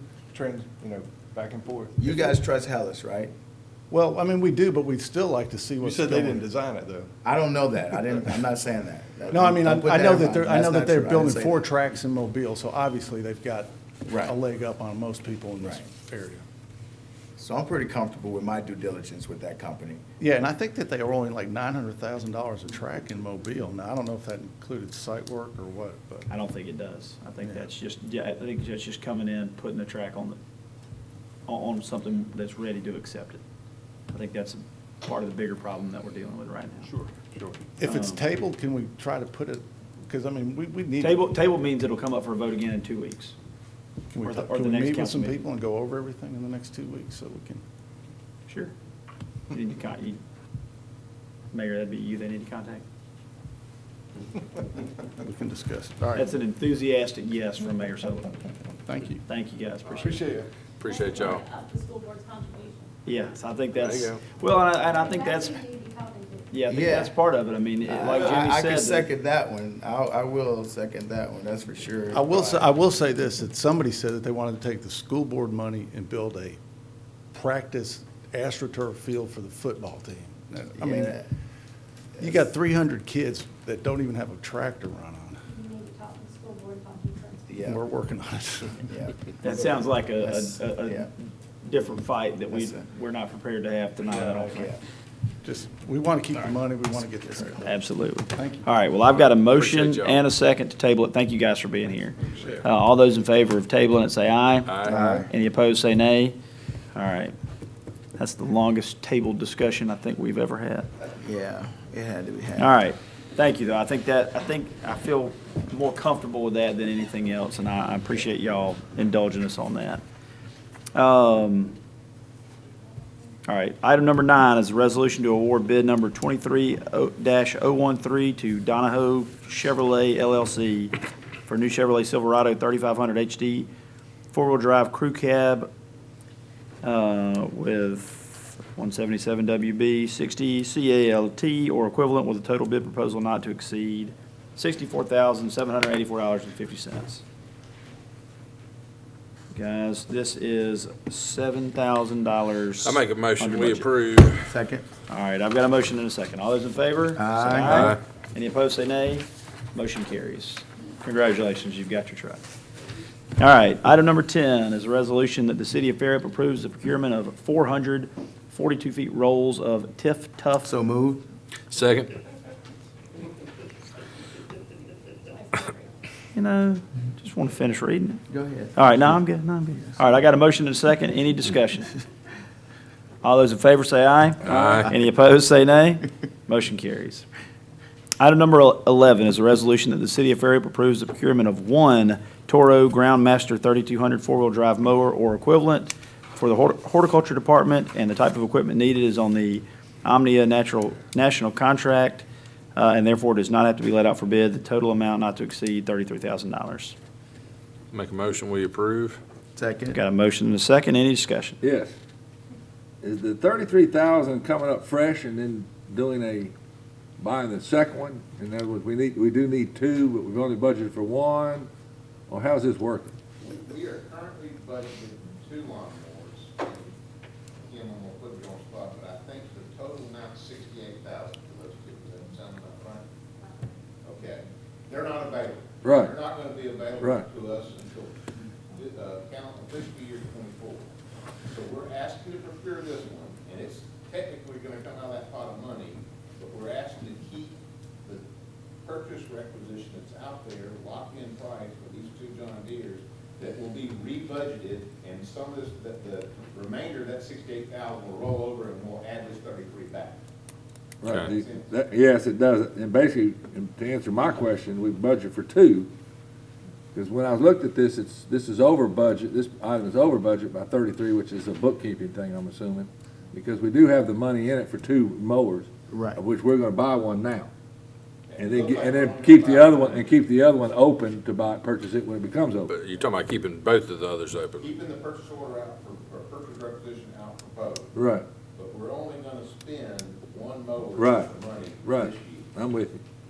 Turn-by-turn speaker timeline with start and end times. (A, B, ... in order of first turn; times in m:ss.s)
0:00.3-0:02.4 A
0:02.0-0:03.3 B
0:03.9-0:06.5 C
0:05.8-0:07.1 A
0:07.2-0:11.6 B
0:09.3-0:13.7 C
0:14.1-0:14.3 B
0:14.2-0:16.4 C
0:15.6-0:15.8 B
0:17.4-0:20.0 B
0:20.2-0:26.3 C
0:26.3-0:30.4 D
0:27.4-0:27.7 C
0:31.5-0:33.4 D
0:34.1-0:36.9 D
0:36.8-0:37.6 A
0:37.8-0:41.3 C
0:37.8-0:38.2 D
0:41.0-0:43.4 D
0:44.1-0:47.6 C
0:44.2-0:45.4 D
0:48.5-0:48.7 D
0:49.5-0:50.2 D
0:51.5-0:52.8 D
0:55.2-0:56.2 C
0:56.1-0:58.3 D
0:58.9-0:59.2 C
0:59.2-1:00.2 D
0:59.9-1:00.5 A
1:00.8-1:02.9 E
1:00.8-1:01.4 F
1:03.1-1:05.6 D
1:05.0-1:06.5 E
1:06.5-1:09.1 D
1:06.7-1:07.2 B
1:07.8-1:12.7 B
1:12.1-1:16.6 C
1:17.3-1:21.2 C
1:20.8-1:21.3 B
1:22.2-1:25.4 C
1:25.5-1:27.5 E
1:27.5-1:27.8 B
1:27.6-1:28.9 C
1:28.9-1:29.2 B
1:29.4-1:34.8 D
1:30.2-1:31.1 B
1:32.5-1:32.8 B
1:34.5-1:34.8 B
1:35.4-1:38.7 C
1:37.6-1:46.4 D
1:39.5-1:40.2 F
1:44.7-1:44.9 F
1:44.8-1:45.3 B
1:46.9-1:47.3 D
1:48.2-1:50.9 D
1:51.2-1:52.7 B
1:52.6-2:00.0 D
2:01.0-2:01.8 D
2:03.5-2:13.7 D
2:14.3-2:15.7 D
2:16.8-2:27.2 D
2:29.5-2:33.9 D
2:32.8-2:34.5 F
2:34.5-2:34.9 B
2:35.1-2:42.4 D
2:37.2-2:38.0 B
2:43.4-2:50.7 D
2:50.6-2:51.3 B
2:51.7-2:52.1 F
2:55.3-2:55.9 E
2:56.3-2:58.2 D
2:58.3-2:59.0 B
2:58.8-3:01.9 D
3:03.2-3:07.3 D
3:04.5-3:04.8 F
3:08.2-3:22.2 D
3:22.8-3:27.0 D
3:27.9-3:29.2 F
3:29.6-3:30.0 B
3:29.9-3:31.6 D
3:31.6-3:31.9 G
3:33.0-3:36.5 G
3:37.2-3:41.7 G
3:42.3-3:43.1 G
3:43.5-3:46.9 H
3:47.6-3:53.0 H
3:54.0-3:58.2 H
3:55.8-3:56.2 G
3:57.0-3:57.2 G
3:58.7-4:00.9 H
4:01.5-4:08.2 H
4:08.8-4:20.2 H
4:21.0-4:25.9 G
4:21.1-4:21.7 H
4:26.9-4:37.5 G
4:35.9-4:36.2 B
4:38.3-4:40.2 H
4:38.4-4:42.7 G
4:42.7-4:44.6 F
4:44.6-4:47.9 H
4:48.0-4:48.3 G
4:48.5-4:52.5 H
4:51.0-4:51.3 G
4:51.8-4:53.0 G